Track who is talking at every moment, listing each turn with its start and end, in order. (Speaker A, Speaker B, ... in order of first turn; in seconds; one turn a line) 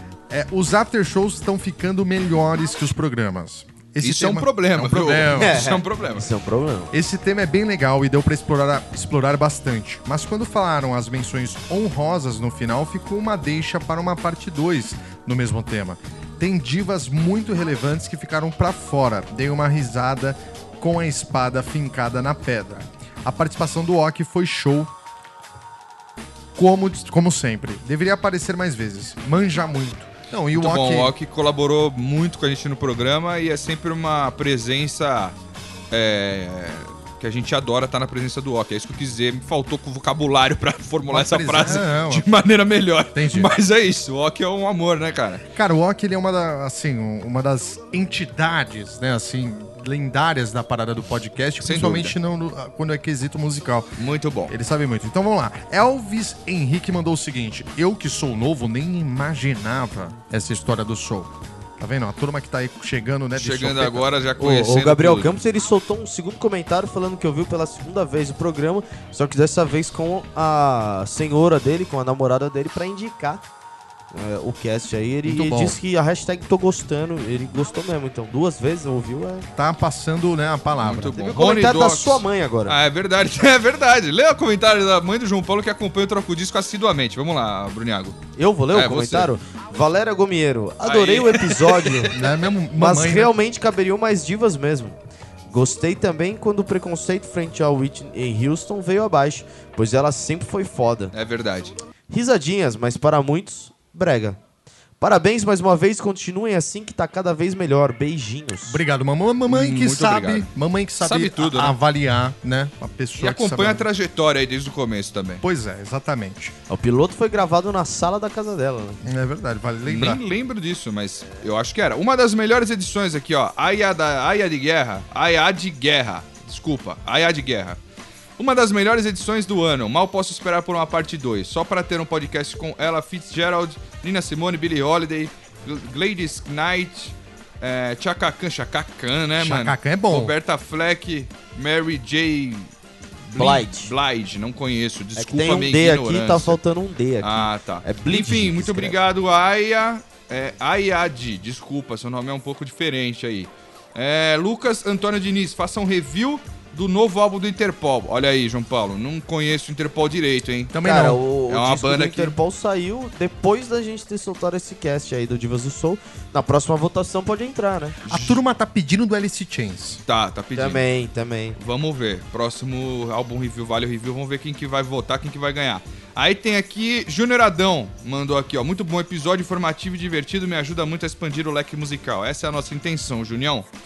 Speaker A: 0.3-5.6
Speaker B: 4.0-6.3
Speaker C: 5.3-6.9
Speaker A: 6.9-24.9
Speaker A: 26.6-31.1
Speaker B: 30.5-35.3
Speaker B: 35.9-45.4
Speaker A: 41.1-42.3
Speaker A: 43.1-43.5
Speaker A: 45.5-53.9
Speaker B: 51.6-52.1
Speaker B: 54.0-54.5
Speaker A: 54.5-64.1
Speaker B: 63.3-65.3
Speaker C: 64.4-73.4
Speaker C: 74.1-79.5
Speaker A: 75.2-75.8
Speaker A: 79.5-81.3
Speaker B: 80.8-88.2
Speaker C: 81.1-82.8
Speaker C: 88.3-92.1
Speaker B: 88.7-89.3
Speaker B: 90.8-92.3
Speaker A: 92.1-93.3
Speaker C: 92.7-95.0
Speaker C: 95.5-101.1
Speaker B: 101.1-101.8
Speaker C: 102.1-104.4
Speaker C: 105.0-108.8
Speaker A: 108.7-113.8
Speaker B: 109.5-111.8
Speaker B: 113.2-115.4
Speaker A: 115.4-116.5
Speaker C: 116.7-119.0
Speaker A: 119.0-120.2
Speaker B: 119.8-127.8
Speaker B: 128.4-142.7
Speaker A: 139.4-140.3
Speaker B: 143.3-146.6
Speaker C: 143.3-143.9
Speaker C: 145.1-149.0
Speaker B: 147.2-162.3
Speaker A: 160.7-161.2
Speaker C: 160.8-168.0
Speaker B: 168.0-168.4
Speaker A: 168.1-170.0
Speaker B: 170.1-170.8
Speaker C: 170.5-171.6
Speaker B: 171.6-183.7